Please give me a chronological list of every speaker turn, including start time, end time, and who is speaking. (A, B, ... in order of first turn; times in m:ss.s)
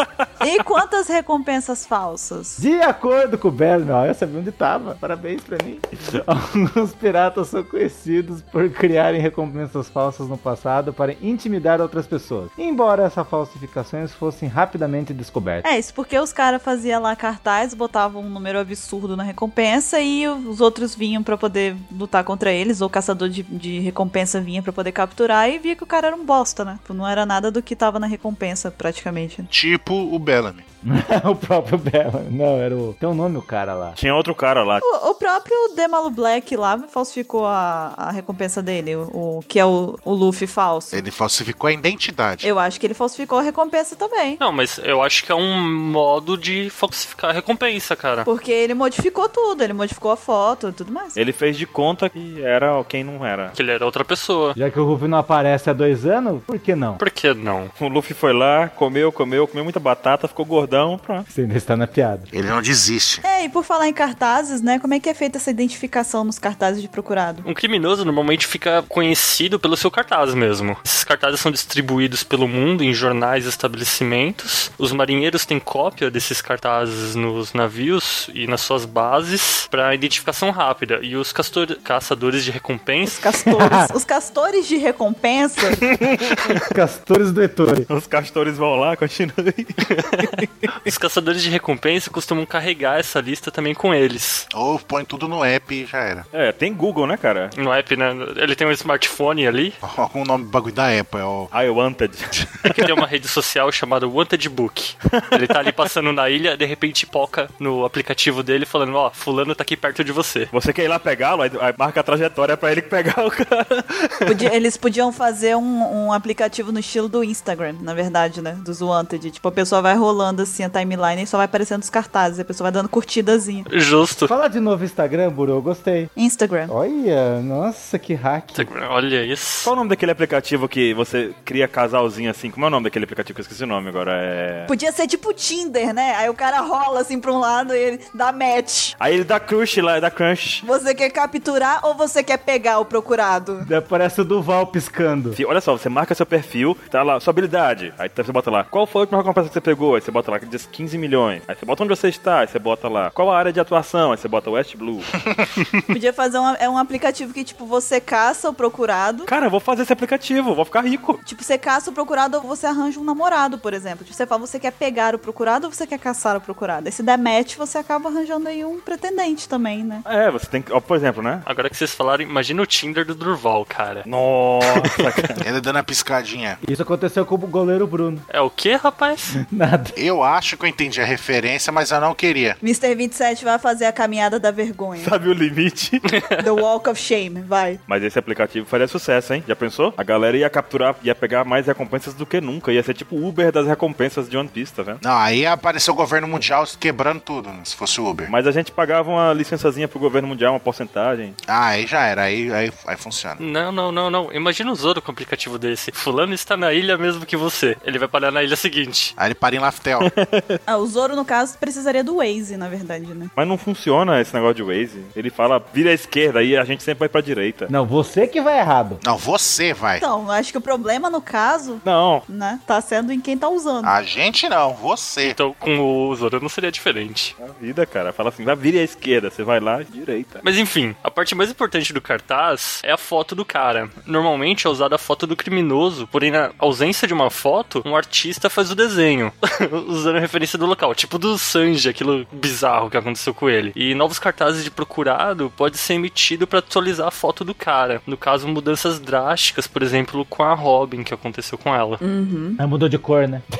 0:00.4-0:02.6 A
0:02.6-0:15.6 B
0:15.6-0:29.5 A
0:29.5-0:30.6 C
0:30.8-0:34.0 B
0:34.0-0:34.8 D
0:34.8-0:41.0 A
0:40.9-0:42.5 C
0:42.4-0:44.4 A
0:44.4-0:48.3 E
0:48.3-0:51.2 A
0:51.1-0:53.6 D
0:53.6-0:54.6 E
0:54.6-0:57.0 B
0:57.0-0:57.7 E
0:57.8-1:01.3 D
1:01.3-1:02.3 B
1:02.3-1:03.2 C
1:03.2-1:07.4 A
1:07.4-1:23.3 E
1:23.0-1:25.9 A
1:23.6-1:23.9 B
1:25.8-1:26.4 D
1:26.6-1:27.9 B
1:27.9-1:30.8 D
1:29.9-1:30.3 E
1:30.8-1:34.5 E
1:34.5-1:36.3 C
1:36.3-1:37.5 D
1:37.6-1:39.8 E
1:39.8-1:41.5 C
1:41.5-1:43.0 D
1:42.7-1:50.5 E
1:45.1-1:45.7 D
1:50.5-1:54.4 D
1:54.3-2:03.7 A
2:03.7-2:04.3 E
2:04.3-2:06.1 B
2:06.2-2:06.7 A
2:06.7-2:08.7 B
2:08.5-2:09.7 E
2:09.6-2:14.7 D
2:14.7-2:19.0 A
2:19.0-2:20.6 D
2:20.6-2:23.7 A
2:23.6-2:25.4 B
2:25.3-2:35.2 D
2:35.9-2:39.3 A
2:39.3-2:41.2 D
2:41.2-2:50.0 A
2:50.0-2:51.4 D
2:51.4-2:54.0 E
2:54.0-2:55.4 D
2:54.6-2:55.2 E
2:55.4-2:56.6 C
2:56.6-2:58.3 B
2:58.3-2:59.3 E
2:59.3-3:00.0 B
3:00.0-3:02.6 C
3:02.6-3:05.1 A
3:05.0-3:06.0 D
3:06.0-3:06.4 E
3:06.4-3:07.8 A
3:07.9-3:15.0 D
3:15.0-3:18.3 C
3:18.3-3:21.4 D
3:21.5-3:23.4 C
3:23.4-3:29.1 E
3:29.2-3:30.1 C
3:30.0-3:30.6 D
3:30.7-3:33.3 A
3:33.4-3:37.7 D
3:37.7-3:39.0 B
3:39.0-3:40.0 C
3:40.0-3:43.9 A
3:41.8-3:42.3 D
3:43.8-3:45.4 C
3:45.2-3:47.3 E
3:47.4-3:50.4 D
3:50.4-4:12.0 E
4:12.0-4:12.6 A
4:12.6-4:13.4 B